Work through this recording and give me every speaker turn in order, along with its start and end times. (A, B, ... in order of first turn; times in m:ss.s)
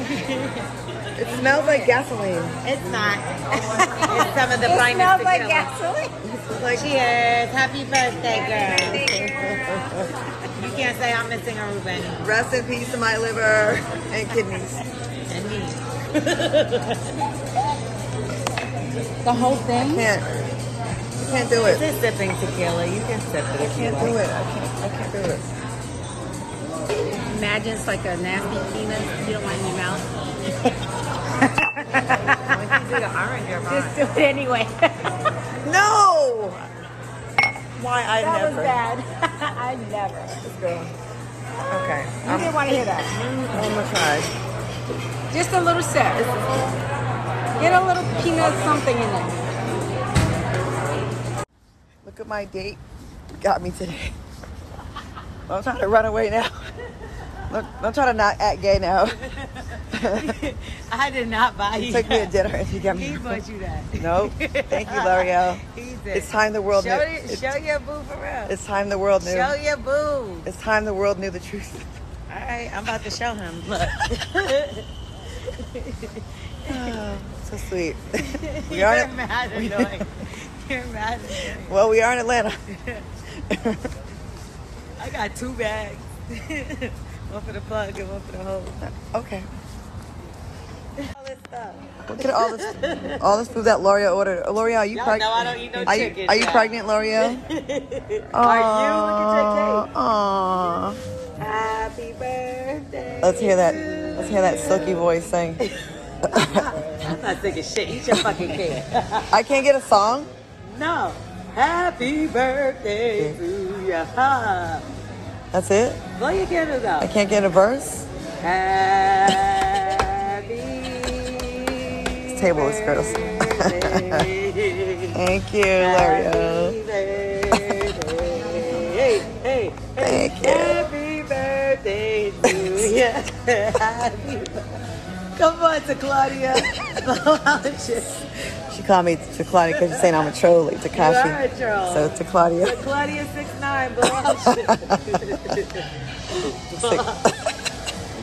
0:00.2-0:00.5 A
0:01.2-0:02.6 B
0:01.4-0:01.9 C
0:02.6-0:05.7 A
0:03.7-0:06.1 C
0:06.2-0:06.9 B
0:06.7-0:10.0 A
0:08.3-0:10.0 C
0:10.5-0:12.2 A
0:12.2-0:14.8 B
0:15.3-0:17.2 A
0:19.2-0:20.1 C
0:19.7-0:20.3 B
0:21.2-0:21.8 B
0:21.6-0:24.2 A
0:23.6-0:25.5 B
0:27.2-0:30.1 C
0:31.4-0:34.0 A
0:32.1-0:33.0 C
0:32.5-0:33.0 B
0:33.7-0:34.9 C
0:35.6-0:36.7 B
0:37.8-0:38.8 B
0:38.2-0:40.4 C
0:40.4-0:40.9 B
0:41.7-0:42.9 B
0:42.2-0:43.2 C
0:43.2-0:43.5 A
0:43.5-0:44.3 B
0:45.3-0:46.3 C
0:47.6-0:49.4 C
0:52.0-0:52.8 B
0:53.4-0:54.2 B
0:55.5-0:56.6 B
0:57.5-0:59.2 B
0:59.2-1:08.5 A
0:59.9-1:00.4 B
1:01.7-1:03.4 B
1:04.0-1:05.6 B
1:06.1-1:07.5 B
1:08.4-1:09.6 B
1:09.2-1:10.5 A
1:10.4-1:11.9 B
1:12.3-1:14.9 A
1:15.4-1:17.0 A
1:16.7-1:20.0 B
1:18.3-1:21.8 A
1:21.6-1:22.6 B
1:22.7-1:23.0 A
1:23.4-1:23.9 B
1:25.0-1:28.8 A
1:28.8-1:29.5 B
1:31.0-1:33.2 A
1:32.0-1:37.4 B
1:34.9-1:39.9 A
1:38.3-1:41.0 B
1:41.4-1:45.1 A
1:43.2-1:45.6 B
1:46.2-1:46.8 B
1:46.3-1:49.3 A
1:49.3-1:50.3 B
1:50.6-1:54.8 A
1:53.1-1:53.4 B
1:55.5-1:56.0 B
1:56.2-1:57.1 A
1:57.0-1:58.1 B
1:58.4-2:05.2 A
2:02.3-2:04.3 B
2:05.1-2:06.8 B
2:05.8-2:14.6 A
2:10.0-2:10.8 B
2:12.4-2:12.9 B
2:15.4-2:18.2 A
2:18.7-2:22.8 B
2:19.7-2:20.1 A
2:20.9-2:27.3 A
2:24.2-2:25.6 B
2:26.7-2:27.5 B